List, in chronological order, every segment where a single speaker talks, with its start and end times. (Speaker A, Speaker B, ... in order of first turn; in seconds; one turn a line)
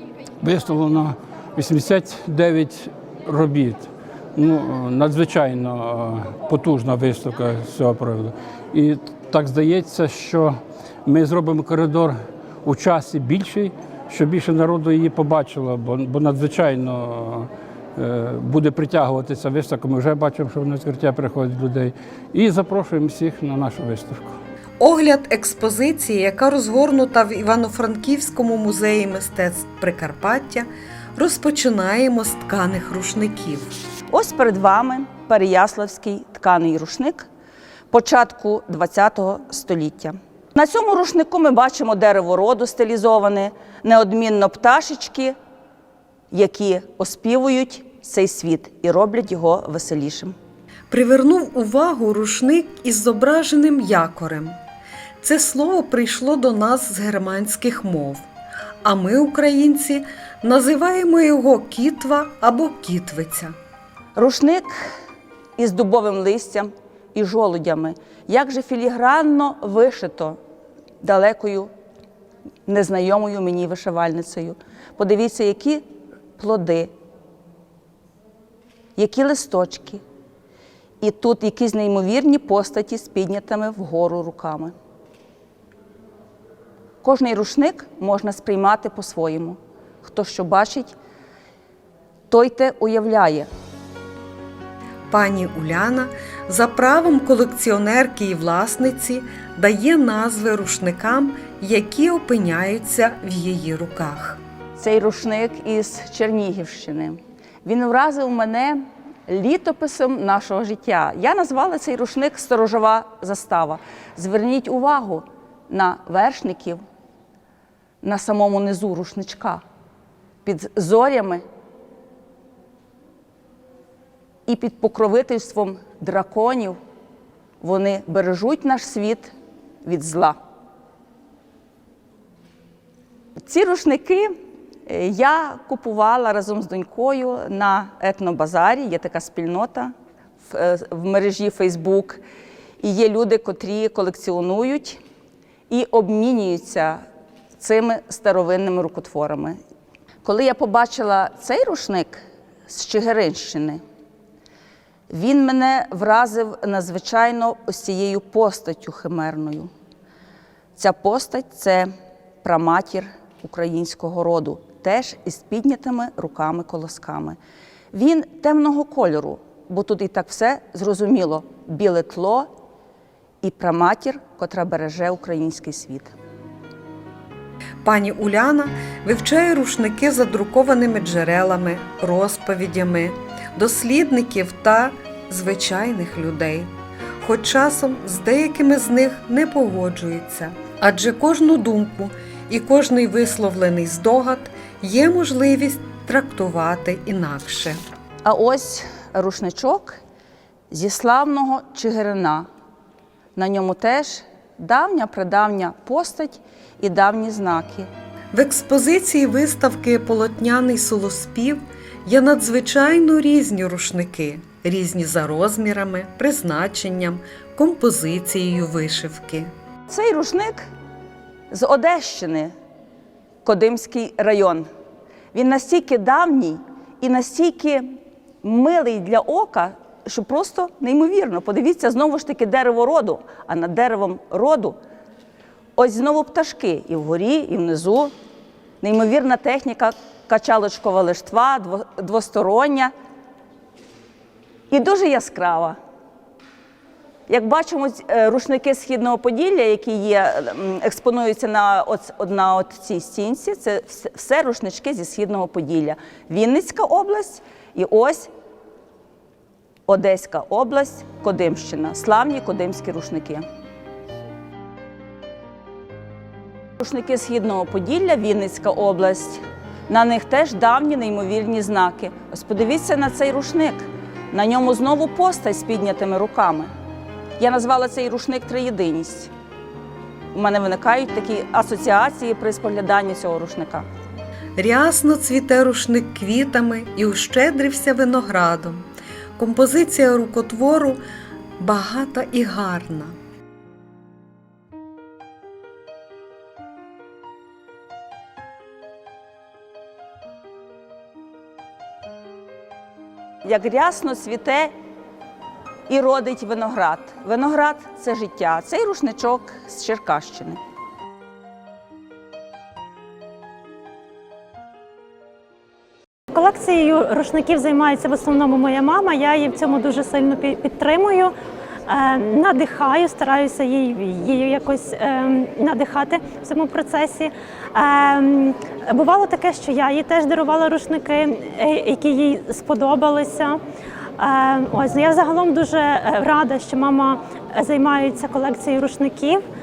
Speaker A: 0.4-24.4
Speaker B: 24.8-33.7
Speaker C: 34.1-37.3
Speaker C: 37.9-45.4
Speaker C: 46.3-50.4
Speaker B: 50.9-54.6
Speaker B: 55.2-58.2
Speaker B: 58.8-63.5
Speaker C: 64.2-65.0
Speaker C: 65.6-70.4
Speaker C: 71.0-71.7
Speaker C: 72.7-75.8
Speaker C: 76.4-76.9
Speaker C: 79.0-80.0
Speaker C: 81.0-84.7
Speaker C: 87.0-90.9
Speaker C: 92.3-93.5
Speaker B: 95.1-104.4
Speaker C: 104.8-116.8
Speaker C: 118.0-119.6
Speaker C: 120.4-121.4
Speaker C: 124.5-126.8
Speaker C: 127.6-130.4
Speaker C: 133.4-134.3
Speaker C: 134.9-139.9
Speaker C: 140.4-142.2
Speaker C: 142.8-145.0
Speaker C: 145.7-147.0
Speaker C: 147.6-149.6
Speaker C: 150.2-153.8
Speaker C: 155.1-159.7
Speaker C: 160.8-161.9
Speaker C: 162.4-167.4
Speaker C: 167.9-172.5
Speaker C: 173.4-176.1
Speaker B: 177.8-197.8
Speaker C: 198.2-200.0
Speaker C: 200.7-202.5
Speaker C: 203.4-207.9
Speaker B: 208.3-219.5
Speaker C: 219.9-220.7
Speaker C: 221.5-222.5
Speaker C: 223.4-224.7
Speaker C: 225.3-234.8
Speaker C: 235.8-238.1
Speaker C: 238.8-242.9
Speaker C: 244.7-245.8
Speaker C: 247.3-258.3
Speaker C: 259.9-263.4
Speaker C: 266.8-276.7
Speaker C: 277.4-279.3
Speaker C: 280.3-283.9
Speaker B: 284.6-291.0
Speaker B: 291.6-293.1
Speaker C: 303.4-304.7
Speaker C: 305.9-310.6
Speaker D: 316.3-321.3
Speaker D: 321.9-333.6
Speaker D: 334.2-339.4